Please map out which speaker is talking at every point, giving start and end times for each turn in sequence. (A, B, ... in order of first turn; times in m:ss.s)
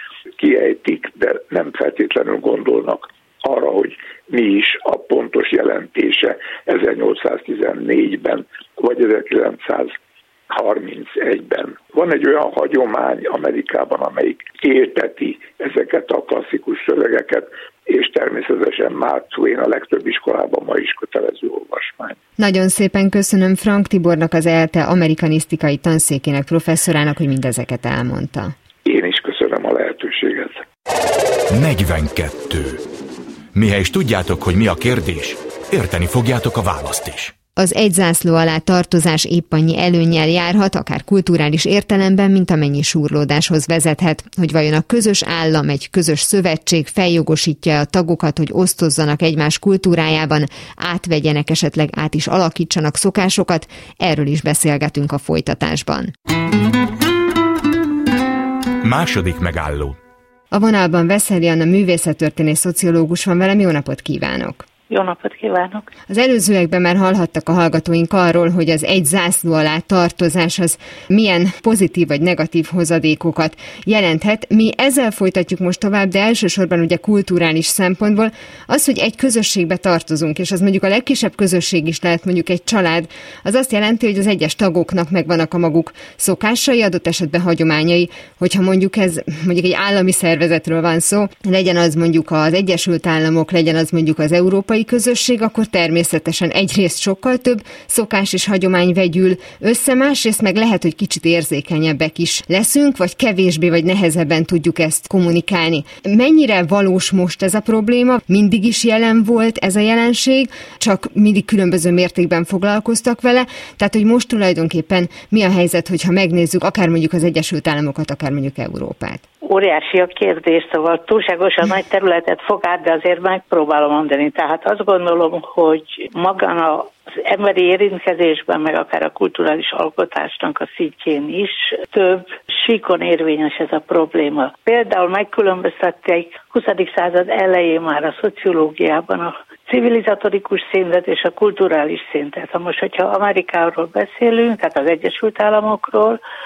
0:00.4-0:09.9 A
0:10.5-0:22.2 A
0:22.4-0:28.5 B
0:28.8-0:30.6 A
0:31.5-0:32.8 C
0:33.5-0:37.3 C
0:37.6-0:56.1 B
0:58.8-1:00.0 C
1:00.5-1:04.6 B
1:04.9-1:05.9 D
1:06.1-1:59.2 B
1:59.4-2:26.2 D